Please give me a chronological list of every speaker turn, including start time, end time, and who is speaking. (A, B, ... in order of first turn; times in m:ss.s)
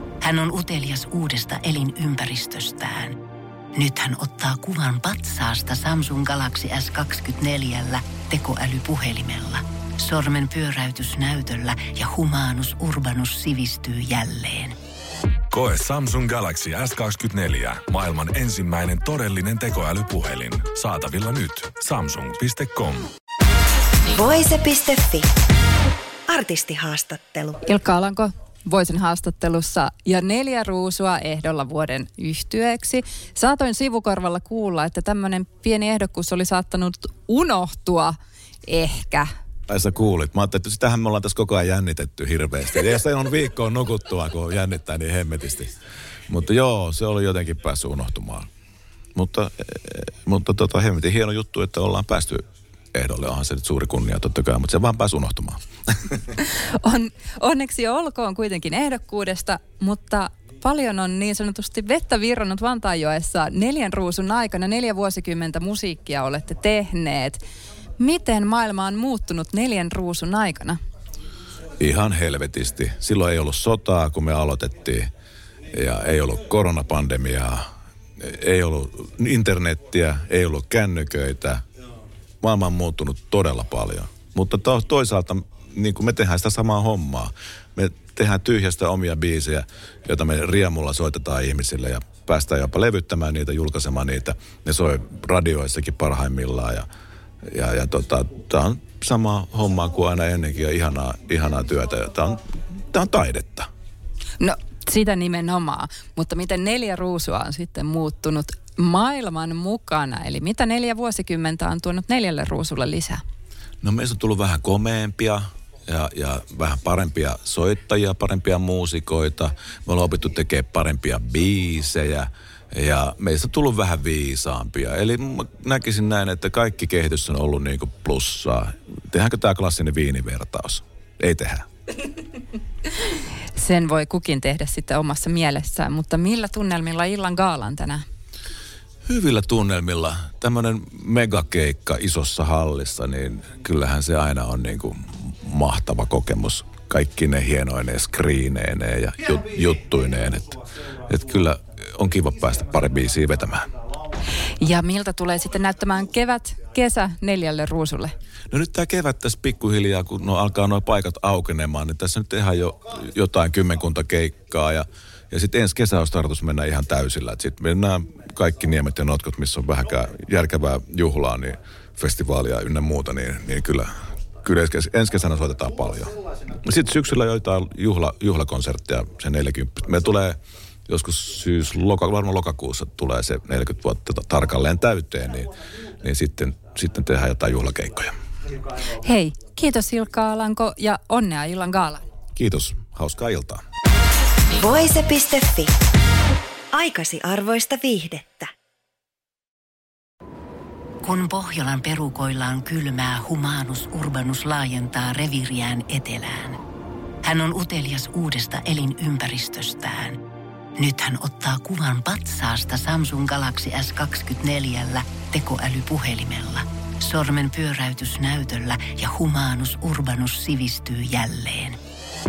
0:00.2-0:03.2 A
0:03.8-0:14.7 A
0:15.5-0:23.1 B
0:24.1-0:25.3 C
0:26.3-0:27.6 C
0:27.6-0:38.1 D
0:38.6-0:39.3 D
0:39.7-0:45.7 E
0:46.3-0:48.5 E
0:49.1-0:56.1 E
0:56.4-1:07.4 D
1:08.0-1:10.8 D
1:11.8-1:15.1 E
1:15.7-1:17.6 E
1:18.2-1:21.6 E
1:22.4-1:36.9 E
1:37.4-1:43.7 E
1:44.4-1:53.2 D
1:53.8-2:11.6 E
2:13.5-2:18.0 D
2:19.0-2:33.7 E
2:34.6-2:38.1 D
2:38.5-3:08.1 E
3:09.0-3:12.0 D
3:12.4-3:13.6 E
3:14.5-3:15.7 C
3:16.7-3:18.5 C
3:21.0-3:26.6 A
3:27.2-3:30.2 A
3:30.8-3:41.8 A